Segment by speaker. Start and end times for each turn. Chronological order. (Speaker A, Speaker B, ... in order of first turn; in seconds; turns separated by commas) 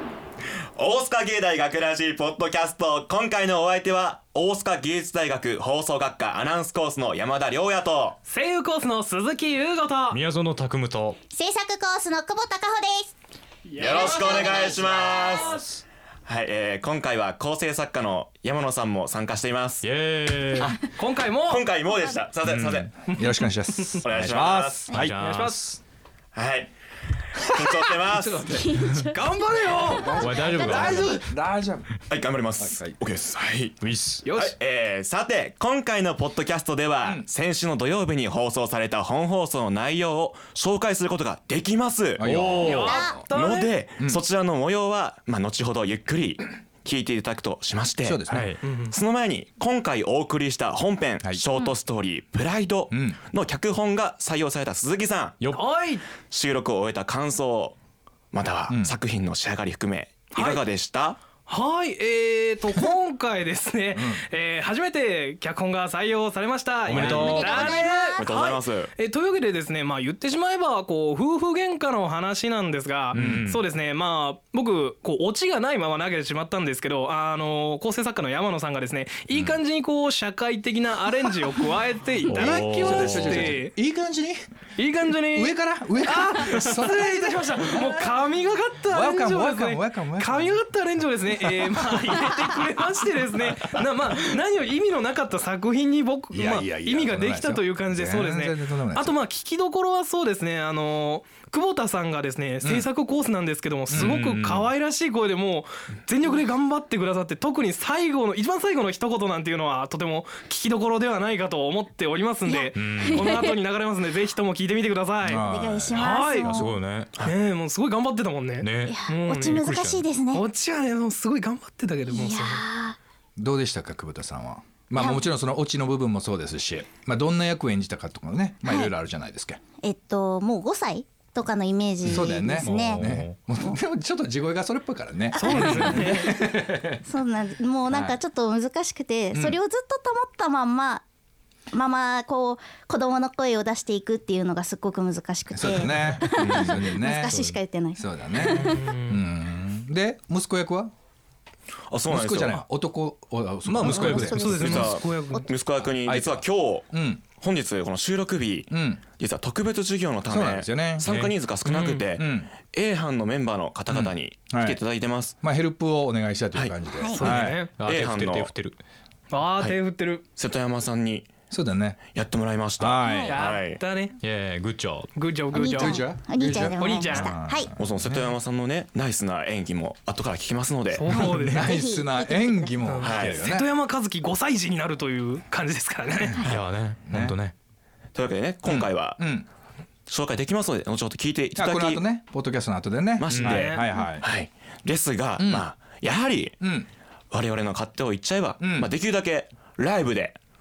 Speaker A: 0.8-8.2, Speaker B: 8.2-10.2, Speaker C: 10.1-11.2, Speaker D: 11.3-13.1, Speaker B: 13.7-15.7, Speaker A: 13.8-15.5, Speaker D: 14.0-15.5, Speaker A: 16.2-19.9, Speaker C: 19.8-20.8, Speaker B: 21.0-21.7, Speaker A: 21.4-22.9, Speaker C: 22.4-22.9, Speaker B: 23.1-24.0, Speaker E: 23.1-25.1, Speaker A: 24.0-25.1, Speaker C: 24.1-25.8, Speaker B: 25.2-25.7, Speaker A: 26.3-26.7, Speaker A: 27.4-28.5, Speaker E: 27.9-29.1, Speaker B: 29.1-31.1, Speaker E: 29.9-31.9, Speaker C: 30.1-31.2, Speaker D: 30.2-30.9, Speaker A: 32.1-33.8, Speaker E: 32.6-33.0, Speaker C: 33.8-34.3, Speaker B: 34.2-34.5, Speaker A: 34.3-42.5, Speaker E: 42.2-43.3, Speaker C: 42.2-42.9, Speaker B: 42.6-43.7, Speaker D: 42.7-43.1, Speaker A: 43.3-55.4, Speaker E: 48.0-48.5, Speaker C: 48.3-48.6, Speaker B: 48.6-49.0, Speaker E: 52.9-53.2, Speaker C: 55.4-55.7, Speaker B: 55.5-56.0, Speaker A: 56.3-57.8, Speaker A: 58.3-61.2, Speaker E: 58.7-59.0, Speaker B: 60.4-60.6, Speaker B: 61.5-83.8, Speaker E: 64.0-64.2, Speaker C: 66.9-67.8, Speaker D: 66.9-68.3, Speaker E: 67.0-67.3, Speaker A: 68.2-68.9, Speaker C: 73.1-73.6, Speaker E: 73.1-73.5, Speaker E: 82.3-84.4, Speaker C: 82.3-83.6, Speaker B: 84.8-116.6, Speaker E: 85.3-88.1, Speaker E: 88.9-90.6, Speaker E: 91.8-92.2, Speaker E: 96.3-99.2, Speaker E: 102.6-102.9, Speaker E: 103.9-104.2, Speaker C: 103.9-104.7, Speaker D: 112.5-113.5, Speaker C: 112.7-113.4, Speaker E: 115.2-116.1, Speaker D: 115.4-116.8, Speaker C: 116.4-117.1, Speaker B: 117.2-122.6, Speaker C: 118.6-119.0, Speaker D: 118.9-120.5, Speaker D: 122.1-123.0, Speaker E: 123.4-129.6, Speaker D: 124.9-125.2, Speaker D: 128.6-128.9, Speaker D: 129.8-133.1, Speaker E: 132.0-137.0, Speaker C: 132.6-133.4, Speaker D: 135.3-136.3, Speaker B: 135.4-136.4, Speaker D: 137.0-141.0, Speaker E: 137.9-138.2, Speaker E: 139.3-139.6, Speaker D: 141.7-148.8, Speaker E: 145.5-150.9, Speaker C: 146.3-147.6, Speaker B: 148.5-149.2, Speaker A: 151.9-152.6, Speaker E: 152.1-154.9, Speaker C: 153.7-154.6, Speaker D: 153.8-155.5, Speaker B: 153.9-155.5, Speaker A: 154.5-165.3, Speaker E: 155.9-157.2, Speaker E: 158.7-159.0, Speaker E: 160.3-161.1, Speaker C: 161.0-161.3, Speaker B: 161.7-162.1, Speaker E: 162.2-162.5, Speaker E: 163.9-164.8, Speaker E: 165.4-167.6, Speaker D: 167.0-167.2, Speaker B: 167.1-167.7, Speaker C: 167.2-168.8, Speaker A: 167.8-168.5, Speaker B: 169.3-170.2, Speaker A: 170.3-171.3, Speaker E: 171.5-172.0, Speaker A: 172.1-173.8, Speaker E: 172.8-173.3, Speaker D: 173.0-173.3, Speaker B: 173.1-174.2, Speaker C: 174.2-175.1, Speaker B: 175.1-176.2, Speaker D: 175.5-177.7, Speaker E: 175.8-178.2, Speaker B: 176.7-177.3, Speaker A: 177.8-181.1, Speaker B: 180.9-181.8, Speaker E: 181.1-183.7, Speaker D: 181.1-182.7, Speaker B: 182.8-186.4, Speaker A: 183.0-183.4, Speaker C: 186.4-187.5, Speaker E: 187.0-187.4, Speaker A: 188.1-189.3, Speaker E: 188.6-189.5, Speaker A: 190.1-192.0, Speaker E: 191.5-194.3, Speaker A: 193.2-196.6, Speaker C: 193.3-193.6, Speaker B: 193.4-194.0, Speaker E: 195.4-195.7, Speaker E: 196.6-196.9, Speaker A: 197.3-200.4, Speaker E: 198.6-198.9